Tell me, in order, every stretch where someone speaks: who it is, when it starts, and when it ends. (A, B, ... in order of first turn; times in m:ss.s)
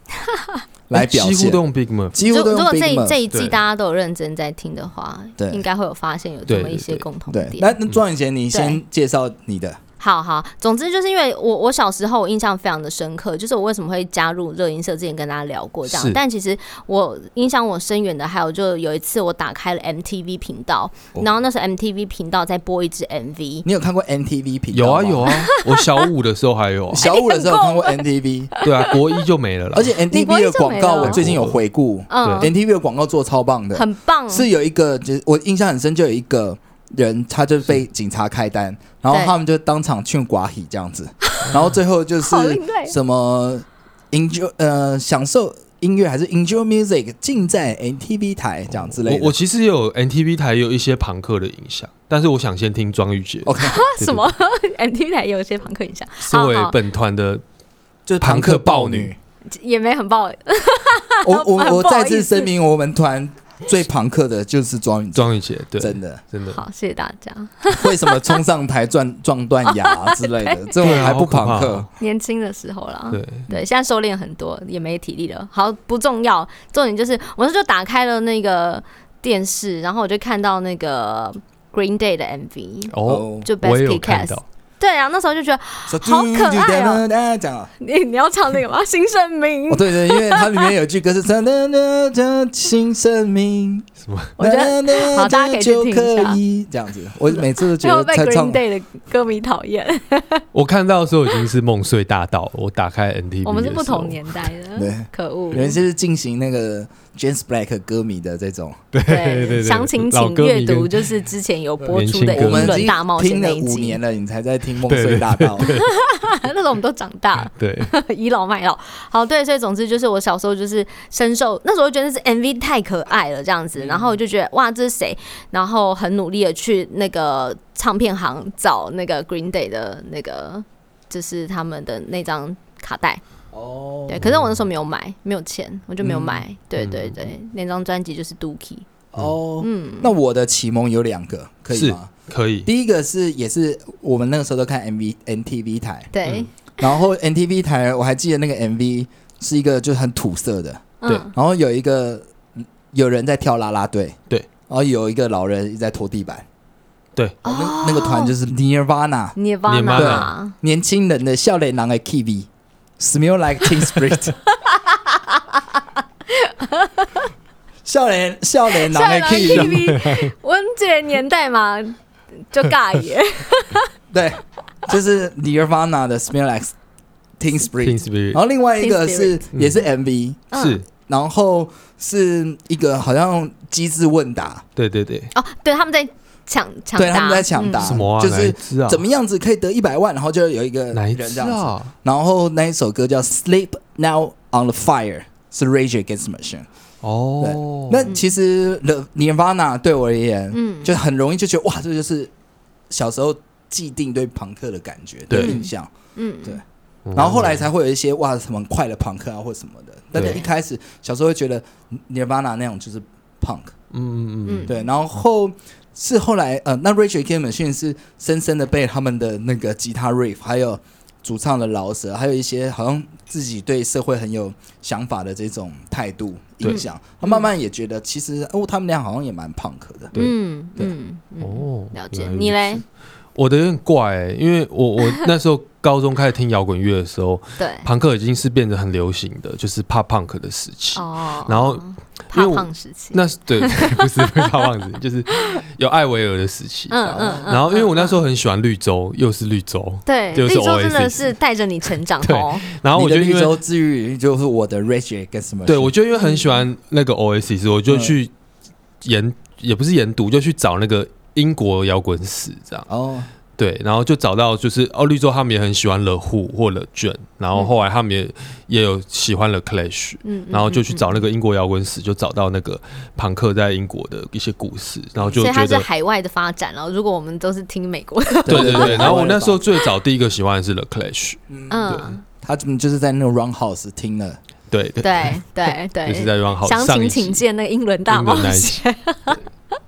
0:00.3-0:00.6 A
0:00.9-0:01.6 B
0:00.9-0:02.2 C
0:02.1-0:03.2 B
0:02.2-0:07.8 A
0:03.3-0:03.6 C
0:05.4-0:05.6 B
0:06.5-0:07.1 C
0:07.3-0:09.8 B
0:08.5-0:08.8 A
0:10.0-0:23.7 A
0:15.9-0:16.2 C
0:23.6-0:25.5 B
0:24.7-0:27.1 C
0:25.3-0:26.0 A
0:26.9-0:28.5 B
0:27.0-0:29.2 A
0:28.6-0:30.0 C
0:29.7-0:49.4 B
0:30.1-0:31.2 A
0:31.0-0:31.6 C
0:32.1-0:32.5 A
0:32.2-0:32.5 C
0:33.7-0:34.5 A
0:39.1-0:39.4 A
0:42.2-0:43.0 A
0:48.7-0:54.3 C
0:53.4-0:53.8 B
0:53.6-0:56.8 A
0:56.3-0:57.4 C
0:58.1-0:59.2 B
0:58.2-0:59.1 C
0:59.5-1:02.5 A
1:01.2-1:06.2 B
1:05.2-1:06.6 C
1:06.5-1:08.4 A
1:07.7-1:11.9 B
1:09.7-1:11.1 A
1:10.8-1:11.9 C
1:12.0-1:27.0 A
1:13.1-1:13.5 C
1:22.9-1:24.4 C
1:23.0-1:23.5 B
1:25.9-1:27.7 B
1:27.8-1:30.7 A
1:29.7-1:33.9 B
1:34.0-1:34.3 C
1:34.4-1:38.6 B
1:34.4-1:36.4 A
1:37.3-1:40.4 A
1:40.5-1:44.5 C
1:43.4-1:45.8 A
1:44.8-1:48.8 B
1:48.9-1:51.1 C
1:49.1-1:54.0 A
1:51.8-1:55.7 B
1:51.9-1:52.9 C
1:54.9-1:55.9 C
1:55.6-2:13.2 A
1:57.4-1:57.9 C
2:13.5-2:14.2 B
2:14.1-2:18.9 A
2:14.2-2:14.6 C
2:16.0-2:16.4 B
2:16.8-2:17.3 C
2:19.1-2:22.1 B
2:19.6-2:20.1 A
2:21.7-2:22.7 C
2:22.6-2:26.1 B
2:26.1-2:27.0 A
2:26.8-2:34.2 B
2:31.0-2:31.3 A
2:34.7-2:36.4 B
2:37.4-2:38.3 A
2:37.4-2:39.4 B
2:39.4-2:40.6 A
2:39.7-2:40.3 C
2:39.9-2:44.4 B
2:44.9-2:45.4 A
2:46.3-2:47.3 A
2:47.8-2:49.8 B
2:48.8-2:52.0 A
2:49.5-2:50.3 C
2:52.5-2:53.9 A
2:54.1-2:56.7 B
2:57.4-3:04.6 B
2:57.7-2:58.4 C
2:58.8-2:59.4 A
2:59.5-2:59.8 C
3:00.5-3:00.8 A
3:00.6-3:00.8 C
3:04.8-3:05.3 C
3:05.3-3:07.9 A
3:07.0-3:16.7 B
3:07.8-3:09.0 C
3:10.9-3:11.9 C
3:17.0-3:18.1 C
3:17.4-3:22.3 B
3:20.5-3:21.0 A
3:22.9-3:25.9 B
3:25.3-3:25.6 C
3:25.4-3:26.6 A
3:27.1-3:27.7 C
3:27.2-3:33.7 B
3:30.2-3:30.4 C
3:30.2-3:30.4 A
3:33.9-3:34.7 C
3:34.5-3:34.9 A
3:34.7-3:50.2 B
3:46.6-3:47.5 A
3:50.2-3:52.8 A
3:51.4-3:52.8 C
3:53.4-4:11.4 C
3:57.6-3:57.9 A
4:01.0-4:04.6 A
4:06.9-4:08.2 A
4:07.1-4:07.5 B
4:10.1-4:12.7 A
4:12.2-4:13.6 C
4:12.9-4:15.9 B
4:15.7-4:18.3 C
4:16.1-4:16.6 A
4:17.9-4:18.2 B
4:19.0-4:22.9 C
4:22.9-4:23.3 B
4:23.6-4:35.9 C
4:30.2-4:31.2 A
4:35.2-4:39.3 A
4:38.4-4:39.6 B
4:38.5-4:42.1 C
4:41.5-4:44.4 B
4:41.7-4:42.2 A
4:44.7-4:47.4 C
4:45.0-4:49.4 A
4:48.1-4:48.8 C